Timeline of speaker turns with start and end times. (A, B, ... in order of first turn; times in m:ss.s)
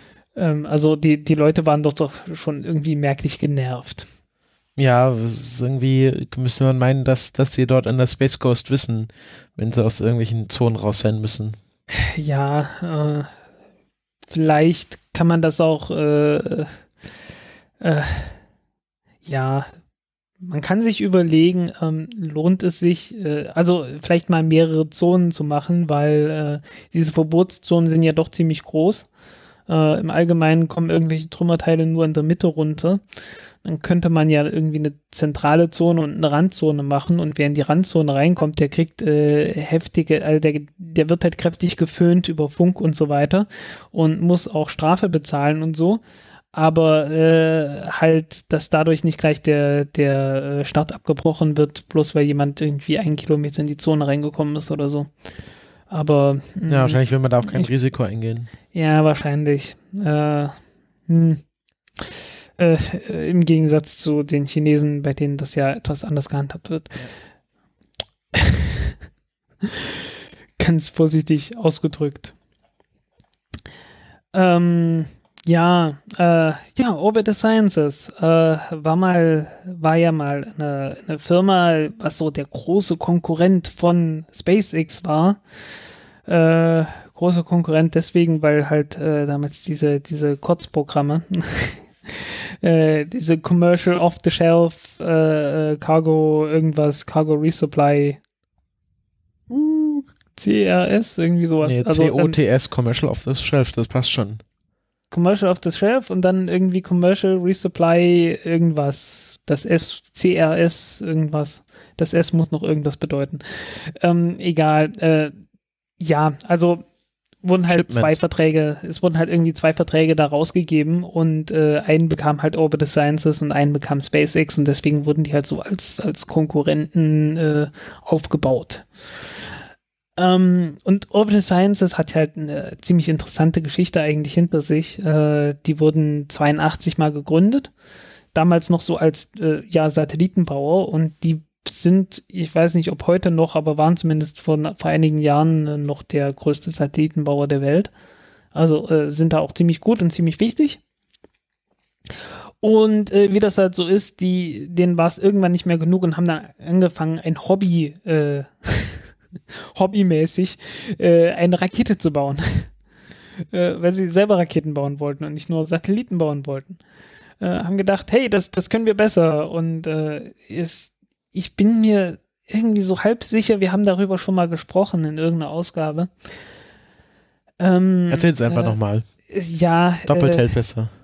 0:00.4-0:04.1 A
0:04.8-0:11.6 B
0:12.0-0:13.3 A
0:14.3-0:16.7 A
0:17.8-0:18.4 A
0:19.3-0:19.7 A
0:20.4-0:29.1 A
0:29.7-0:33.0 A
0:33.6-0:46.0 A
0:46.5-0:55.1 A
0:55.9-0:57.7 A
0:56.7-0:58.5 B
0:58.7-1:00.6 A
1:01.1-1:01.4 A
1:02.0-1:07.1 A
1:08.3-1:08.9 A
1:10.6-1:12.3 A
1:14.3-1:25.4 A
1:26.3-1:38.2 A
1:39.5-1:42.4 A
1:41.6-1:44.4 B
1:45.1-1:55.3 A
1:56.0-1:56.8 A
1:57.4-2:08.9 A
1:57.7-1:58.1 B
2:10.2-2:17.7 A
2:18.3-2:27.9 A
2:28.5-2:30.8 A
2:32.6-2:39.1 A
2:39.7-2:42.7 A
2:43.5-2:46.8 A
2:47.4-2:56.1 A
2:57.6-2:58.8 A
2:58.1-2:59.0 B
2:59.3-3:00.5 A
3:00.1-3:00.9 B